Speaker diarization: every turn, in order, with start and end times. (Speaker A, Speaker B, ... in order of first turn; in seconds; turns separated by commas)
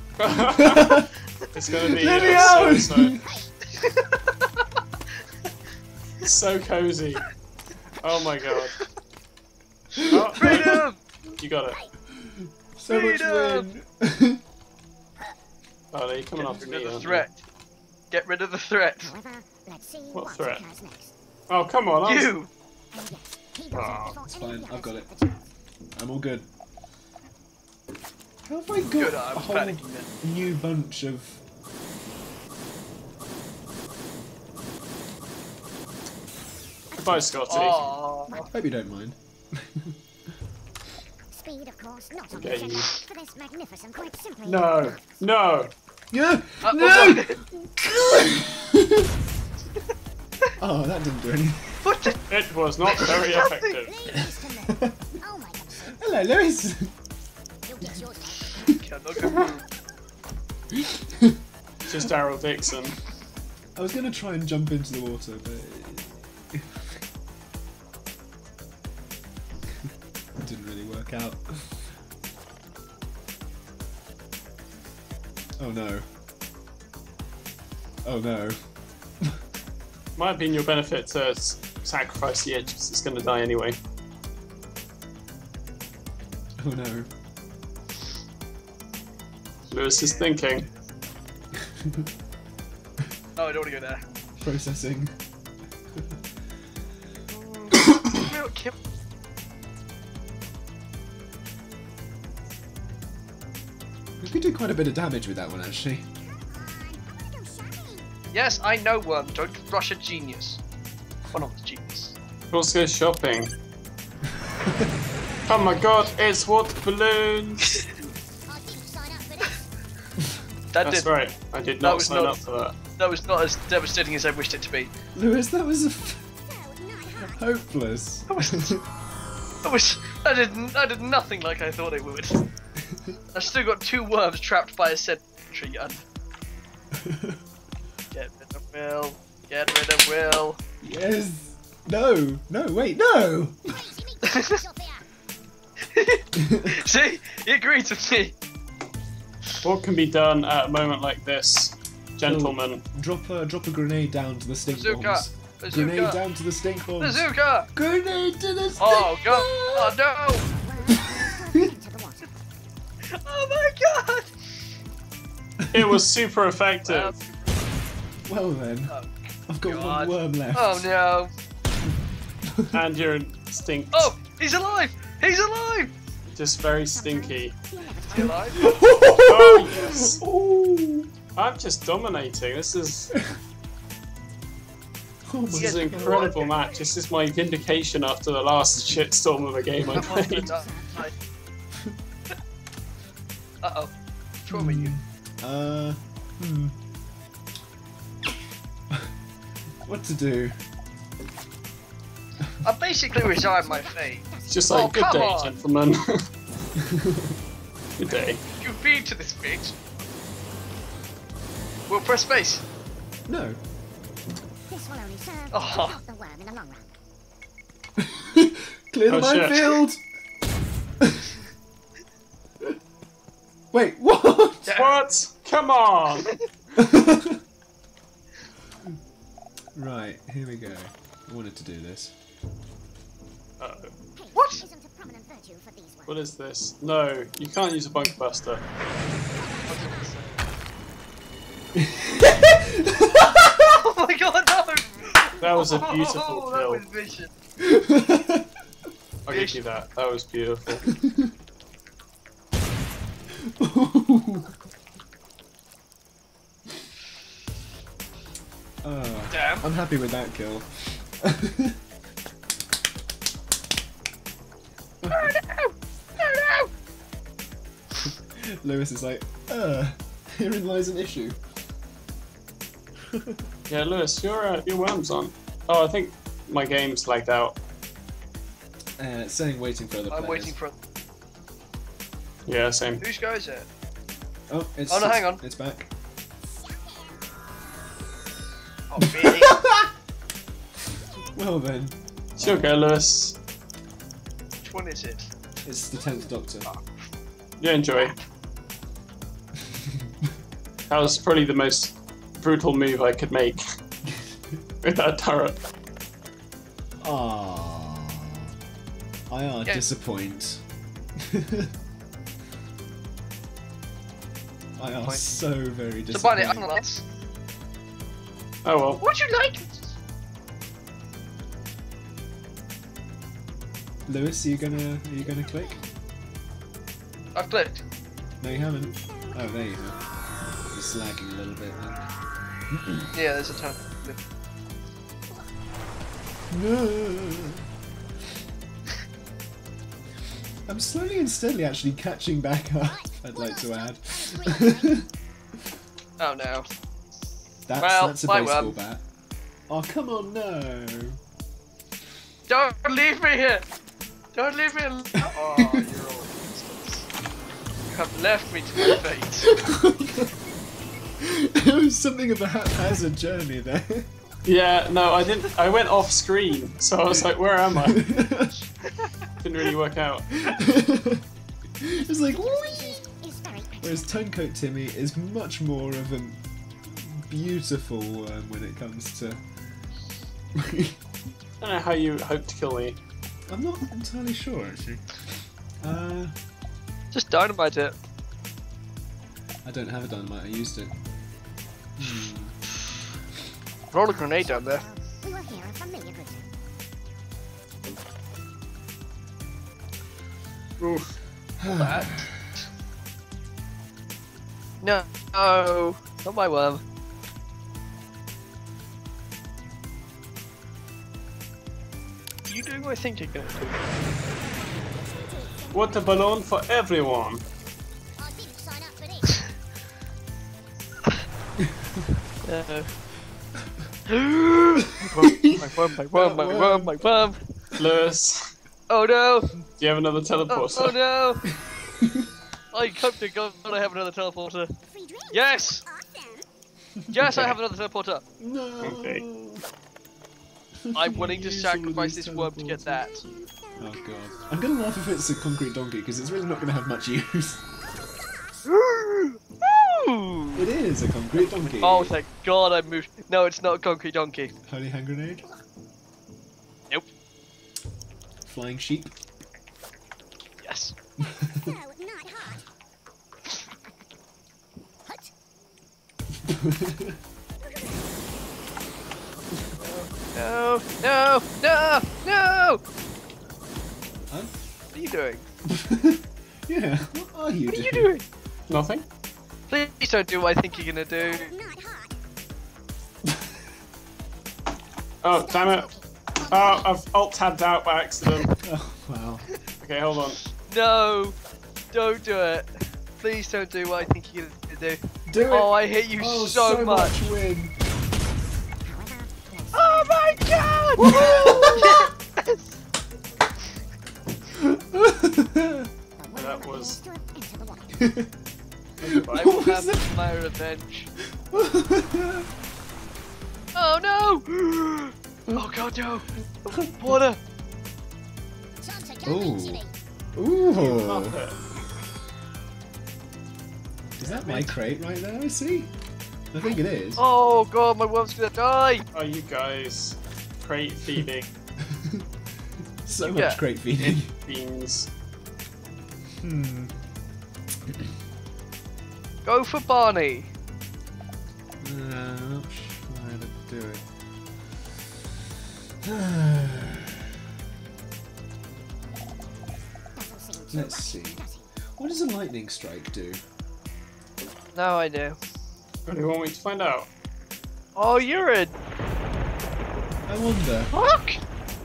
Speaker A: 0.2-3.2, Speaker B: 0.3-1.1, Speaker B: 1.9-3.4, Speaker C: 3.2-3.6, Speaker D: 3.8-4.0, Speaker A: 6.2-7.3, Speaker A: 8.0-8.8, Speaker B: 9.9-10.8, Speaker A: 10.1-10.8, Speaker D: 10.3-11.0, Speaker A: 11.4-11.8, Speaker B: 12.2-14.4, Speaker D: 12.9-13.7, Speaker A: 15.9-17.3, Speaker D: 16.4-17.4, Speaker D: 18.1-19.1, Speaker C: 19.0-21.1, Speaker A: 20.1-20.6, Speaker A: 21.5-22.3, Speaker D: 22.0-22.5, Speaker C: 22.9-25.4, Speaker A: 23.7-24.2, Speaker B: 24.2-25.1, Speaker B: 25.9-26.5, Speaker B: 28.4-31.4, Speaker D: 28.9-30.1, Speaker C: 36.9-38.4, Speaker A: 36.9-37.9, Speaker D: 37.5-38.5, Speaker B: 38.5-40.0, Speaker C: 41.3-45.2, Speaker A: 42.4-42.9, Speaker A: 44.4-45.7, Speaker B: 46.1-49.1, Speaker D: 46.6-47.4, Speaker B: 50.6-51.8, Speaker D: 51.8-52.2, Speaker A: 52.3-53.9, Speaker D: 52.9-53.8, Speaker C: 53.8-55.9, Speaker B: 54.1-55.0, Speaker B: 55.9-56.9, Speaker C: 57.6-58.8, Speaker D: 58.6-59.6, Speaker B: 60.7-61.4, Speaker A: 61.9-63.0, Speaker B: 63.8-67.0, Speaker B: 70.4-71.9, Speaker B: 75.6-76.0, Speaker B: 78.0-78.6, Speaker A: 80.2-83.8, Speaker B: 86.6-87.1, Speaker A: 89.7-90.7, Speaker D: 89.7-90.4, Speaker B: 91.6-92.1, Speaker D: 93.4-94.0, Speaker B: 94.4-95.1, Speaker D: 97.3-98.7, Speaker B: 104.2-106.0, Speaker C: 106.2-108.1, Speaker D: 108.3-110.6, Speaker D: 111.3-112.1, Speaker A: 112.5-113.5, Speaker B: 114.6-114.9, Speaker C: 115.5-116.5, Speaker A: 115.5-117.8, Speaker C: 118.5-119.6, Speaker D: 120.7-121.1, Speaker A: 120.8-122.8, Speaker D: 121.8-122.4, Speaker D: 123.0-124.9, Speaker B: 125.1-126.3, Speaker C: 126.5-127.4, Speaker B: 127.3-128.8, Speaker D: 128.3-128.8, Speaker D: 129.6-132.4, Speaker D: 133.3-136.0, Speaker B: 136.9-137.4, Speaker D: 138.1-140.6, Speaker B: 140.8-143.8, Speaker C: 143.7-145.1, Speaker D: 144.3-144.6, Speaker D: 145.8-148.3, Speaker B: 146.3-146.8, Speaker A: 149.6-152.8, Speaker B: 152.2-160.0, Speaker D: 154.7-156.2, Speaker D: 157.0-157.7, Speaker D: 158.8-160.4, Speaker C: 160.4-162.3, Speaker B: 160.9-161.7, Speaker D: 163.1-164.3, Speaker B: 165.6-165.9, Speaker A: 165.7-167.2, Speaker D: 166.8-167.1, Speaker B: 168.3-168.9, Speaker D: 168.9-171.3, Speaker B: 169.5-170.9, Speaker B: 172.4-172.8, Speaker A: 172.7-174.1, Speaker D: 173.9-175.9, Speaker A: 176.3-177.5, Speaker C: 176.9-178.8, Speaker D: 178.1-178.7, Speaker B: 178.2-181.1, Speaker A: 179.0-180.2, Speaker A: 181.3-183.2, Speaker B: 185.2-186.3, Speaker A: 185.5-190.5, Speaker D: 185.5-186.8, Speaker C: 186.4-186.8, Speaker D: 189.9-191.1, Speaker C: 189.9-191.0, Speaker D: 193.6-193.9, Speaker D: 194.4-194.9, Speaker B: 194.5-196.8, Speaker B: 199.8-200.6, Speaker D: 202.6-205.6, Speaker C: 203.2-204.7, Speaker A: 204.5-206.1, Speaker B: 206.8-207.3, Speaker A: 208.0-208.4, Speaker D: 208.1-209.7, Speaker D: 211.9-212.6, Speaker B: 213.3-213.6, Speaker C: 214.7-216.9, Speaker D: 215.5-216.0, Speaker B: 218.0-220.0, Speaker A: 219.1-219.8, Speaker B: 221.0-221.4, Speaker B: 223.7-224.8, Speaker D: 224.7-225.0, Speaker A: 224.7-226.3, Speaker B: 226.8-227.4, Speaker B: 229.7-232.1, Speaker A: 233.6-233.9, Speaker C: 234.2-236.2, Speaker D: 234.3-234.6, Speaker A: 236.1-238.6, Speaker C: 239.3-240.2, Speaker D: 239.7-240.4, Speaker B: 241.7-243.7, Speaker D: 243.6-247.3, Speaker A: 245.4-246.8, Speaker B: 247.6-248.5, Speaker A: 249.3-250.9, Speaker D: 249.3-249.6, Speaker B: 250.9-251.3, Speaker B: 253.4-254.5, Speaker B: 258.8-261.8, Speaker D: 259.3-259.6, Speaker B: 265.0-265.4, Speaker D: 265.1-266.7, Speaker B: 268.0-271.4, Speaker B: 273.1-273.4, Speaker A: 273.7-277.6, Speaker B: 279.0-280.5, Speaker D: 280.1-280.7, Speaker A: 282.4-283.0, Speaker D: 283.0-283.7, Speaker B: 284.5-285.9, Speaker D: 284.9-285.4, Speaker C: 286.6-287.2, Speaker D: 288.9-289.6, Speaker B: 289.0-289.9, Speaker B: 291.3-292.7, Speaker A: 292.4-293.4, Speaker D: 294.6-295.3, Speaker B: 295.6-296.7, Speaker A: 297.6-298.1, Speaker B: 299.9-300.3, Speaker A: 300.9-303.6, Speaker B: 304.1-304.3, Speaker A: 304.8-305.6, Speaker B: 307.0-308.5, Speaker B: 309.3-310.6, Speaker B: 311.2-311.7, Speaker B: 314.8-316.8, Speaker D: 316.1-317.0, Speaker A: 318.6-319.0, Speaker D: 319.0-319.7, Speaker B: 324.1-325.8, Speaker C: 325.2-325.9, Speaker D: 327.3-327.8, Speaker B: 328.4-330.0, Speaker C: 328.5-330.0, Speaker B: 330.7-332.0, Speaker B: 332.7-333.1, Speaker D: 333.1-334.2, Speaker B: 336.5-337.6, Speaker B: 340.7-345.1, Speaker C: 342.8-345.0, Speaker D: 346.2-346.7, Speaker B: 347.7-349.0, Speaker D: 347.8-348.8, Speaker B: 349.7-351.2, Speaker D: 352.5-353.6, Speaker D: 354.3-357.1, Speaker B: 355.2-355.9, Speaker D: 357.9-359.5, Speaker B: 358.9-360.3, Speaker B: 361.2-364.1, Speaker A: 364.4-368.1, Speaker B: 367.8-368.6, Speaker A: 369.4-370.3, Speaker B: 370.4-371.2, Speaker B: 371.8-373.0, Speaker C: 372.3-374.0, Speaker B: 373.8-379.4, Speaker B: 380.5-381.0, Speaker A: 381.6-383.0, Speaker B: 383.5-385.0, Speaker B: 385.8-386.3, Speaker D: 387.1-387.9, Speaker B: 389.6-390.9, Speaker B: 392.0-392.6, Speaker D: 393.9-394.9, Speaker C: 394.0-396.5, Speaker A: 400.8-401.1, Speaker B: 401.6-402.4, Speaker D: 401.6-402.2, Speaker D: 404.8-406.8, Speaker D: 412.4-413.9, Speaker C: 414.4-416.3, Speaker A: 415.7-417.4, Speaker C: 418.2-419.5, Speaker D: 422.4-422.9, Speaker D: 424.1-427.5, Speaker B: 425.0-427.0, Speaker A: 427.8-428.5, Speaker D: 428.9-429.6, Speaker A: 429.8-430.9, Speaker D: 430.5-431.4, Speaker B: 431.5-432.3, Speaker D: 432.7-434.7, Speaker C: 434.9-436.4, Speaker D: 435.3-435.8, Speaker B: 437.0-437.3, Speaker D: 437.1-438.2, Speaker A: 437.2-437.6, Speaker B: 438.4-439.6, Speaker A: 438.8-439.2, Speaker B: 440.8-443.0, Speaker D: 440.9-443.2, Speaker C: 443.1-444.5, Speaker B: 443.8-447.6, Speaker C: 448.2-448.6, Speaker D: 448.6-450.7, Speaker B: 450.5-452.2, Speaker D: 451.3-454.5, Speaker B: 454.6-455.4, Speaker B: 458.4-459.1, Speaker D: 460.6-460.9, Speaker B: 461.2-461.7, Speaker C: 461.5-462.6, Speaker C: 465.0-465.3, Speaker B: 466.4-467.2, Speaker C: 467.7-468.0, Speaker D: 469.8-472.8, Speaker D: 474.9-475.5, Speaker B: 475.6-478.1, Speaker D: 477.7-478.2, Speaker A: 478.7-479.0, Speaker D: 479.7-481.5, Speaker C: 480.7-482.2, Speaker A: 485.2-485.9, Speaker C: 485.3-486.9, Speaker A: 486.5-488.5, Speaker B: 488.6-489.5, Speaker A: 489.8-490.4, Speaker D: 490.7-491.4, Speaker D: 491.9-497.2, Speaker B: 495.3-497.7, Speaker C: 498.8-501.9, Speaker D: 499.7-502.8, Speaker B: 501.0-502.1, Speaker B: 504.5-505.9, Speaker C: 506.2-508.1, Speaker A: 506.3-507.0, Speaker B: 508.0-508.3, Speaker A: 509.0-509.6, Speaker B: 509.1-510.1, Speaker D: 509.3-511.1, Speaker B: 511.5-512.5, Speaker D: 513.7-517.4, Speaker B: 515.5-515.7, Speaker B: 516.7-517.2, Speaker C: 518.8-520.0, Speaker B: 519.2-519.8, Speaker B: 520.3-521.4, Speaker A: 520.7-521.6, Speaker B: 524.2-525.9, Speaker D: 524.2-524.7, Speaker B: 526.5-527.2, Speaker D: 527.2-529.0, Speaker A: 529.1-531.5, Speaker B: 531.8-532.2, Speaker B: 533.0-534.3, Speaker D: 533.2-533.6, Speaker A: 534.0-535.1, Speaker B: 536.3-536.9, Speaker D: 539.4-540.5, Speaker B: 541.8-544.0, Speaker B: 546.0-547.3, Speaker C: 550.1-551.7, Speaker B: 550.7-551.4, Speaker B: 552.0-553.4, Speaker D: 554.7-555.4, Speaker A: 556.1-557.1, Speaker D: 558.0-558.7, Speaker B: 560.3-560.9, Speaker D: 560.9-561.4